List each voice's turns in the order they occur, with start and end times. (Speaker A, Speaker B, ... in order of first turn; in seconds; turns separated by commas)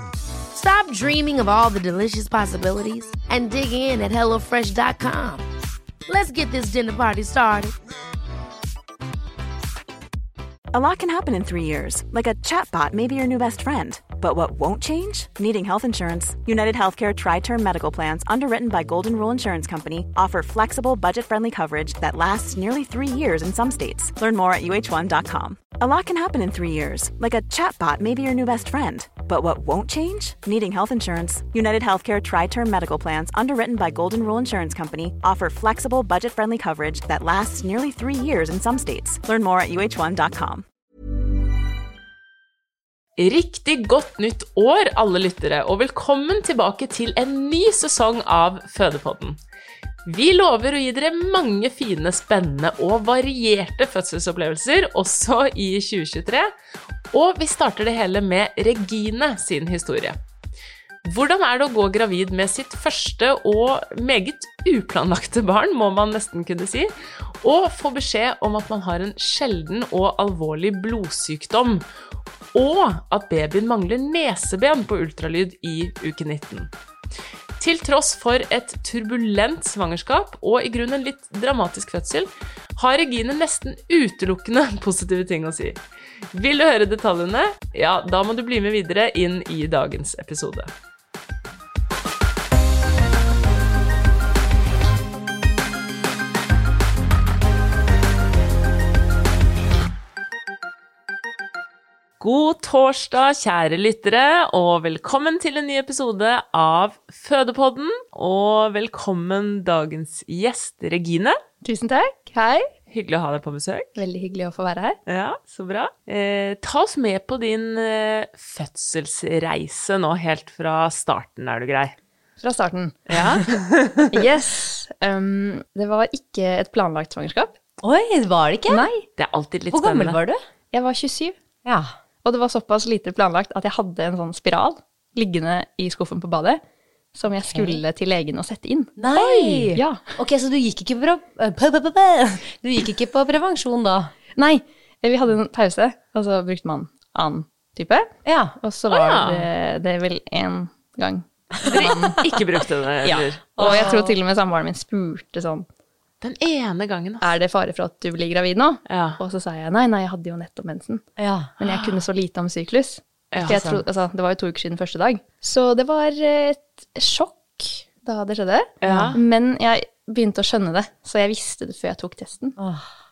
Speaker A: 0.5-5.5, Speaker A: 6.1-7.7, Speaker B: 10.7-40.6, Speaker C: 43.2-49.4, Speaker C: 50.0-56.5, Speaker C: 57.1-60.2, Speaker C: 61.0-71.8, Speaker C: 72.5-76.7, Speaker C: 77.6-85.8, Speaker C: 86.3-90.7, Speaker C: 102.2-111.4, Speaker D: 111.6-112.7, Speaker C: 112.9-114.0, Speaker D: 114.0-115.0, Speaker C: 115.1-122.0, Speaker D: 122.4-123.1, Speaker C: 123.1-124.1, Speaker D: 124.1-127.5, Speaker E: 127.8-128.9, Speaker D: 128.7-129.1, Speaker C: 129.2-130.2, Speaker E: 129.7-130.4, Speaker D: 130.7-131.3, Speaker E: 131.7-131.9, Speaker D: 132.2-136.6, Speaker D: 137.1-139.0, Speaker E: 137.5-137.8, Speaker E: 139.0-144.1, Speaker C: 139.2-139.5, Speaker D: 139.7-140.0, Speaker D: 144.4-148.1, Speaker E: 148.3-148.6, Speaker D: 148.6-152.2, Speaker C: 148.9-149.5, Speaker C: 151.7-154.1, Speaker D: 153.0-155.7, Speaker E: 153.7-153.9, Speaker C: 156.2-157.3, Speaker D: 157.2-161.0, Speaker C: 158.9-159.2, Speaker E: 161.2-161.5, Speaker D: 161.6-172.6, Speaker C: 161.6-162.0, Speaker C: 163.3-163.6, Speaker E: 163.4-163.8, Speaker C: 168.8-169.2, Speaker E: 168.8-169.2, Speaker E: 172.6-172.9